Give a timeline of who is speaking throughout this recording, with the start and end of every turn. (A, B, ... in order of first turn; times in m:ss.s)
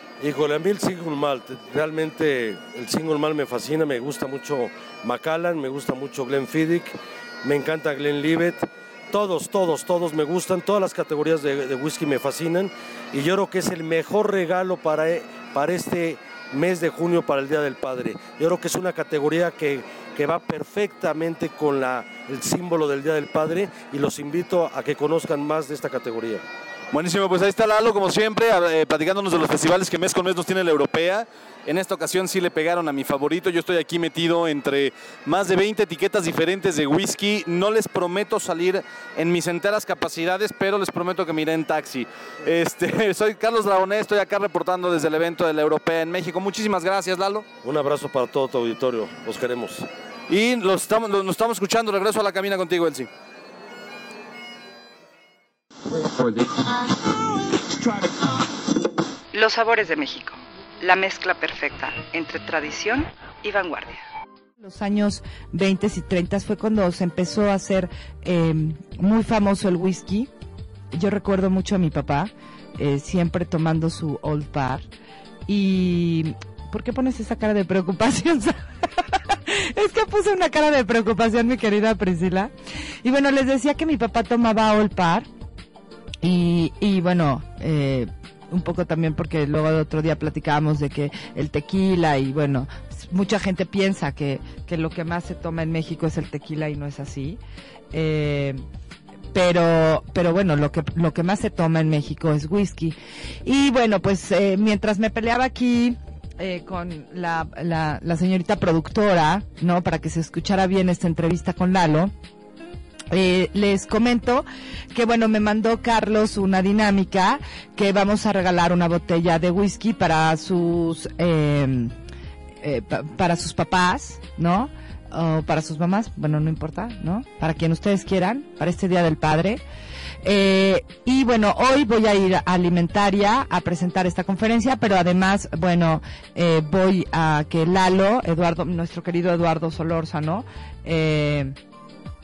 0:00.2-0:26.4 A
0:26.9-0:47.4 B
0:47.6-0:49.9 A
0:50.3-0:53.1 B
0:59.3-1:04.0 C
1:04.6-1:10.3 D
1:10.9-1:14.8 D
1:15.5-1:22.5 D
1:23.0-1:25.3 D
1:26.2-1:37.4 D
1:37.9-1:38.6 D
1:39.3-1:52.1 D
1:53.1-2:01.9 D
2:02.6-2:09.6 D
2:10.2-2:21.5 D